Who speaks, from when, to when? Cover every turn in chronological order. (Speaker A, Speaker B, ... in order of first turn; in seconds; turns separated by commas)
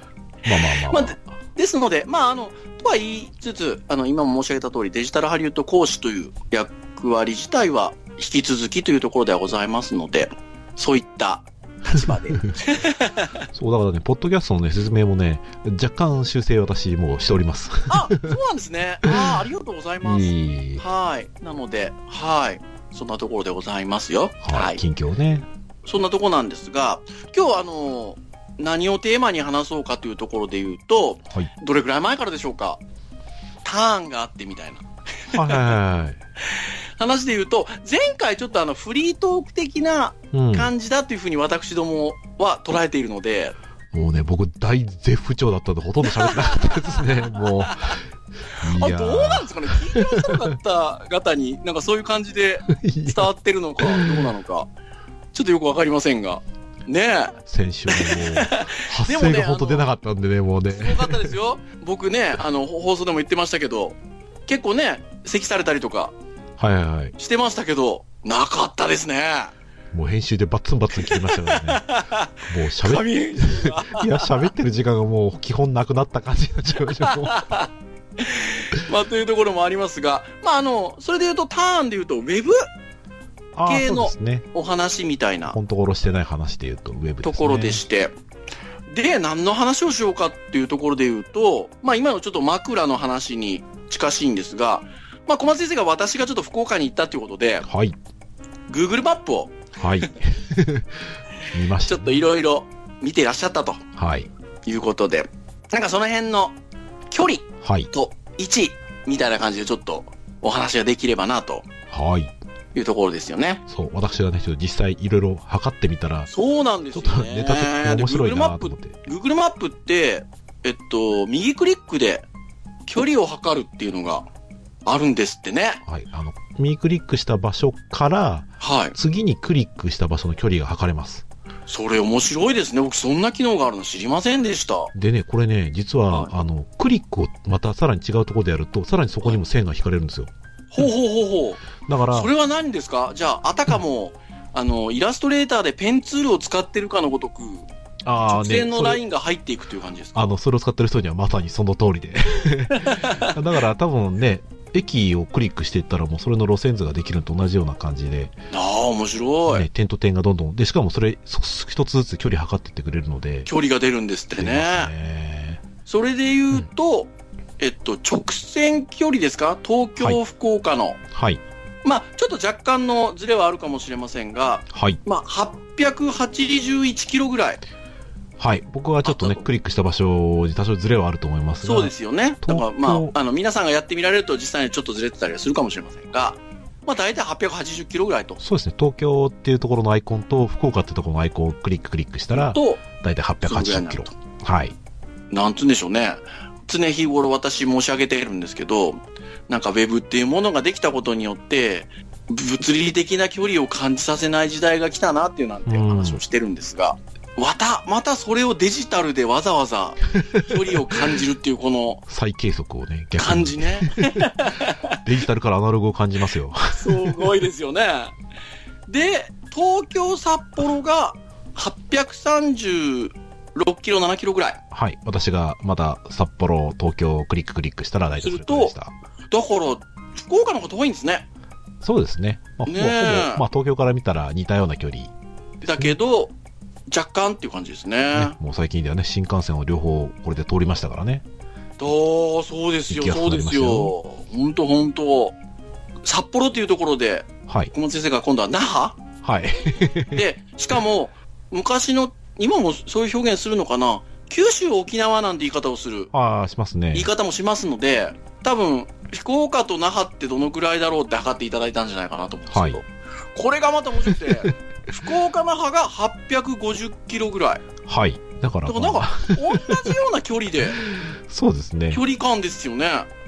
Speaker A: 0.4-1.2, Speaker B: 0.5-13.4, Speaker A: 13.5-18.3, Speaker B: 17.9-24.8, Speaker A: 19.0-19.4, Speaker A: 20.0-20.8, Speaker A: 24.4-25.5, Speaker B: 25.9-32.8, Speaker B: 33.6-35.7, Speaker A: 35.3-36.2, Speaker B: 36.5-43.6, Speaker A: 40.3-40.7, Speaker A: 43.9-48.0, Speaker B: 46.1-47.0, Speaker A: 48.6-50.4, Speaker B: 48.7-54.7, Speaker A: 52.7-53.3, Speaker A: 53.8-54.2, Speaker B: 55.3-59.8, Speaker A: 57.5-61.3, Speaker B: 60.7-64.0, Speaker B: 64.5-66.1, Speaker A: 66.6-67.1, Speaker B: 67.2-69.5, Speaker A: 69.9-71.8, Speaker B: 71.0-74.5, Speaker A: 72.5-77.5, Speaker B: 77.0-82.6, Speaker A: 83.5-84.5, Speaker B: 83.7-85.6, Speaker A: 85.5-87.8, Speaker B: 87.2-88.1, Speaker B: 88.9-97.7, Speaker A: 97.6-98.0, Speaker B: 98.7-99.6, Speaker A: 99.8-102.2, Speaker B: 101.8-103.8, Speaker A: 104.0-104.3, Speaker B: 104.7-106.6, Speaker B: 107.1-111.7, Speaker A: 107.6-107.9, Speaker A: 111.9-112.3, Speaker B: 112.8-113.6, Speaker A: 113.7-116.3, Speaker B: 116.3-122.2, Speaker A: 116.9-119.0, Speaker B: 122.9-124.3, Speaker B: 124.8-125.8, Speaker A: 125.8-131.2, Speaker B: 128.6-128.9, Speaker B: 131.7-134.9, Speaker A: 134.9-140.3, Speaker B: 140.7-147.7, Speaker A: 141.8-142.3, Speaker A: 148.0-149.0, Speaker B: 148.2-150.4, Speaker A: 150.1-158.3, Speaker B: 152.7-153.3, Speaker B: 158.5-159.7, Speaker A: 159.5-163.5, Speaker B: 163.4-164.9, Speaker A: 164.4-165.6, Speaker B: 165.8-171.0, Speaker A: 171.1-171.4, Speaker B: 171.8-177.6, Speaker A: 174.7-175.0, Speaker A: 178.4-183.1, Speaker B: 179.0-179.4, Speaker B: 181.6-188.4, Speaker A: 188.4-194.8, Speaker B: 192.3-192.8, Speaker B: 193.4-194.1, Speaker B: 195.3-212.0, Speaker A: 205.7-206.2, Speaker A: 210.1-211.0, Speaker A: 212.1-214.3, Speaker B: 213.2-215.0, Speaker A: 215.0-217.3, Speaker B: 216.7-218.1, Speaker B: 218.9-224.6, Speaker A: 224.7-228.9, Speaker B: 228.2-228.7, Speaker B: 229.3-231.3, Speaker A: 231.8-235.1, Speaker B: 232.7-233.4, Speaker B: 235.6-236.3, Speaker B: 236.9-238.3, Speaker A: 238.1-241.2, Speaker B: 241.8-245.3, Speaker A: 242.9-243.9, Speaker B: 246.0-249.0, Speaker A: 247.5-247.7, Speaker A: 249.2-250.2, Speaker B: 250.1-256.1, Speaker A: 256.1-257.1, Speaker B: 256.9-267.6, Speaker A: 262.5-262.8, Speaker A: 264.1-264.5, Speaker A: 267.8-269.9, Speaker B: 268.6-270.8, Speaker A: 270.8-272.0, Speaker B: 271.9-273.1